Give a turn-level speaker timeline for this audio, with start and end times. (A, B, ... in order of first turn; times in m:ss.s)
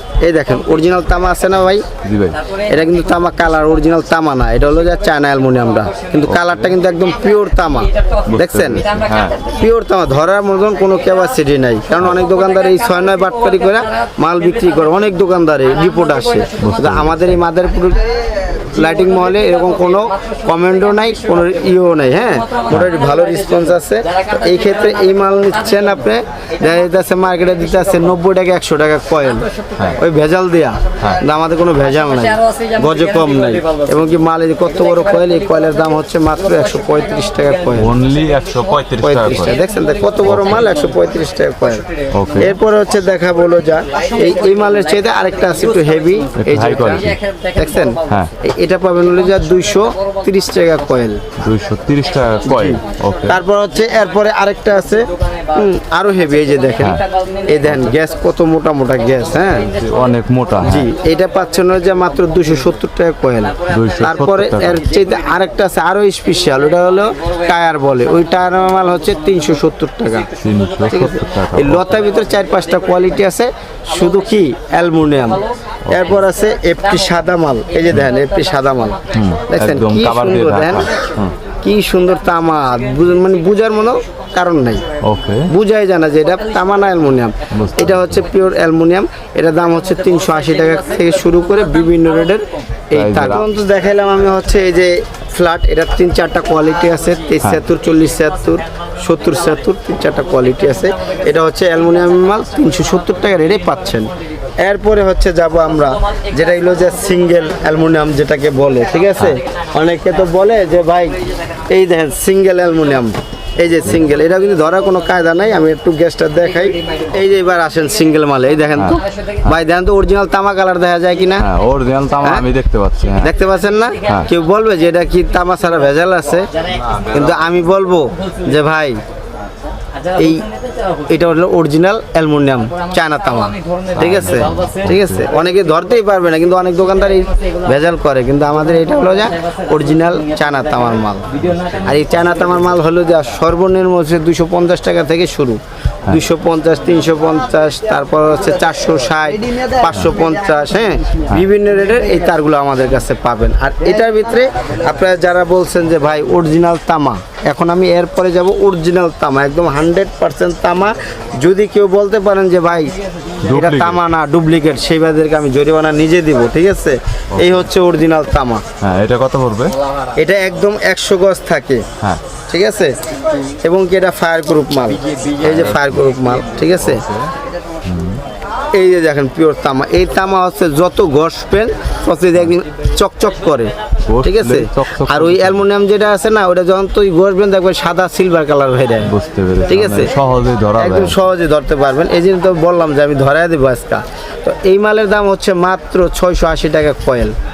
0:00.2-0:01.9 A
0:00.6-0:01.0 B
0:02.0-0:02.4 C
0:02.3-0:04.0 B
0:02.7-0:08.8 A
0:04.6-0:06.4 B
0:06.3-0:06.7 C
0:07.0-0:09.7 B
0:08.3-0:09.4 C
0:09.6-0:29.5 A
0:10.7-0:15.1 B
0:15.6-0:17.4 B
0:16.6-0:17.4 C
0:18.7-0:28.2 B
0:29.2-0:30.0 B
0:30.0-0:37.9 A
0:31.7-0:42.7 B
0:37.8-0:39.6 C
0:39.0-0:41.8 A
0:40.3-0:40.6 C
0:42.1-0:42.6 C
0:42.4-0:51.2 A
0:43.8-0:48.4 B
0:46.4-0:47.2 C
0:49.1-0:51.0 B
0:51.4-0:53.4 C
0:52.0-0:54.1 B
0:52.4-0:59.7 A
0:54.6-0:58.3 B
0:59.0-1:02.7 B
0:59.8-1:00.9 C
1:00.6-1:10.3 A
1:03.5-1:05.5 B
1:03.7-1:04.8 C
1:07.0-1:07.6 B
1:08.8-1:09.0 B
1:10.2-1:11.1 B
1:10.4-1:11.9 C
1:10.9-1:20.9 A
1:12.1-1:13.0 B
1:13.9-1:14.4 B
1:15.2-1:19.1 B
1:15.9-1:16.2 C
1:19.1-1:21.4 C
1:20.8-1:21.2 B
1:21.6-1:24.8 A
1:22.6-1:24.3 B
1:25.0-1:25.5 C
1:25.5-2:01.5 A
1:26.2-1:27.2 B
1:27.5-1:28.3 C
1:27.9-1:28.2 B
1:29.6-1:32.6 B
1:32.9-1:33.5 C
1:40.3-1:43.7 B
1:45.7-1:47.1 B
1:56.6-1:57.2 B
1:58.8-1:59.5 B
2:01.4-2:03.3 C
2:03.2-2:06.5 A
2:03.7-2:04.4 B
2:05.4-2:05.9 B
2:06.4-2:07.3 B
2:06.7-2:07.4 C
2:07.1-2:09.0 A
2:08.1-2:08.6 B
2:09.9-2:11.3 B
2:10.2-2:10.4 A
2:11.1-2:21.3 A
2:12.7-2:15.6 B
2:14.0-2:15.3 C
2:16.9-2:17.8 B
2:18.6-2:22.6 B
2:21.4-2:22.1 C
2:21.8-2:42.9 A
2:43.4-2:44.0 C
2:43.5-2:48.6 A
2:47.3-2:47.7 C
2:48.8-2:49.8 C
2:50.1-2:51.8 A
2:52.5-2:53.0 A
2:53.6-2:57.0 A
2:55.1-2:55.4 B
2:55.4-2:57.3 C
2:57.8-2:58.2 C
2:58.7-3:09.1 A
3:04.1-3:05.6 C
3:09.1-3:11.2 C
3:09.7-3:10.1 A
3:10.8-3:17.4 A